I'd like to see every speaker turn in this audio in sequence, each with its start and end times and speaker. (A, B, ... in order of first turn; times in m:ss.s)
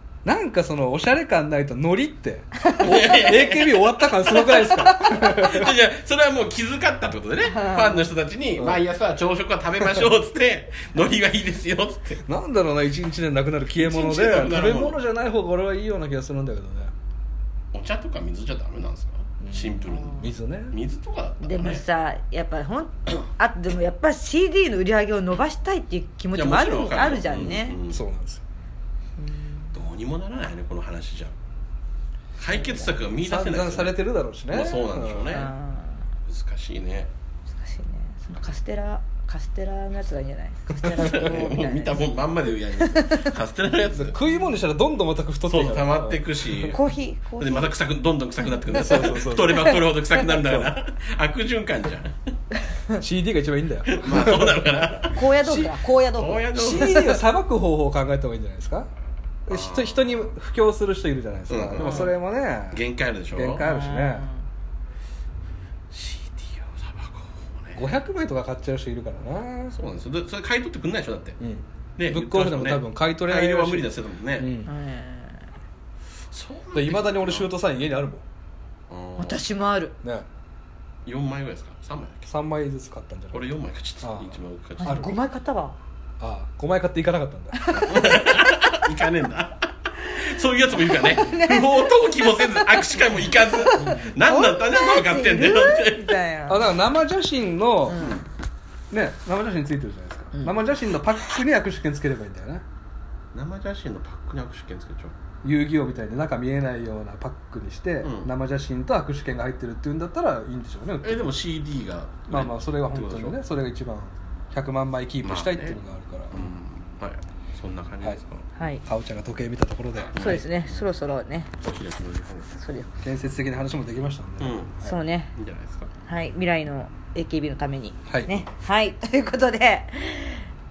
0:00.2-0:05.7 A
0:02.6-0:03.0 B
0:02.8-0:12.2 C
0:04.9-0:05.3 B
0:07.5-0:08.0 B
0:12.3-0:16.9 A
0:13.8-0:15.0 C
0:17.7-0:21.8 C
0:19.4-0:20.7 A
0:19.9-0:20.2 B
0:21.4-0:27.8 B
0:26.4-0:28.0 C
0:27.3-0:28.4 A
0:29.2-0:29.8 B
0:29.7-0:31.3 C
0:32.4-0:34.0 C
0:32.5-0:32.9 B
0:33.2-0:35.4 A
0:34.5-0:35.5 C
0:35.3-0:36.0 B
0:36.3-0:37.1 C
0:37.5-0:42.1 B
0:41.0-0:44.2 C
0:41.0-0:41.4 A
0:42.8-0:43.3 B
0:43.9-0:46.7 A
0:45.5-0:46.8 C
0:46.7-0:47.7 B
0:47.4-0:52.2 C
0:48.7-0:49.7 A
0:48.7-0:49.8 B
0:50.3-0:50.7 A
0:53.0-0:54.6 A
0:53.9-0:55.2 C
0:55.1-0:57.2 B
0:55.4-0:55.7 A
0:56.2-0:57.0 C
0:56.6-0:58.9 A
0:59.5-1:02.8 A
0:59.5-1:00.1 C
1:01.5-1:02.1 C
1:01.8-1:02.1 B
1:02.7-1:03.6 C
1:03.4-1:04.3 A
1:03.6-1:04.4 B
1:05.9-1:07.8 C
1:07.8-1:09.8 A
1:09.8-1:11.4 C
1:11.4-1:14.7 A
1:12.0-1:14.5 C
1:14.6-1:15.5 B
1:16.3-1:17.5 C
1:16.7-1:18.2 A
1:18.9-1:19.4 C
1:19.2-1:19.9 B
1:21.1-1:22.3 C
1:22.3-1:23.5 A
1:23.3-1:25.2 C
1:24.0-1:25.2 A
1:24.8-1:25.8 B
1:26.2-1:28.0 A
1:27.5-1:28.8 B
1:27.8-1:36.2 C
1:31.0-1:36.7 B
1:33.8-1:34.1 A
1:36.5-1:38.1 A
1:37.9-1:38.2 B
1:38.0-1:38.2 C
1:38.9-1:42.6 A
1:43.3-1:45.2 C
1:45.4-1:51.2 A
1:48.0-1:48.3 C
1:51.0-1:53.4 C
1:52.3-1:56.5 A
1:55.2-1:55.8 C
1:56.3-1:58.4 C
1:58.6-1:58.8 B
1:58.9-2:00.4 A
2:00.2-2:00.8 C
2:00.2-2:01.5 B
2:01.6-2:02.5 C
2:02.5-2:02.9 B
2:03.0-2:04.9 A
2:04.4-2:04.8 C
2:04.8-2:05.3 B
2:05.4-2:05.9 C
2:06.1-2:10.5 B
2:08.1-2:08.4 A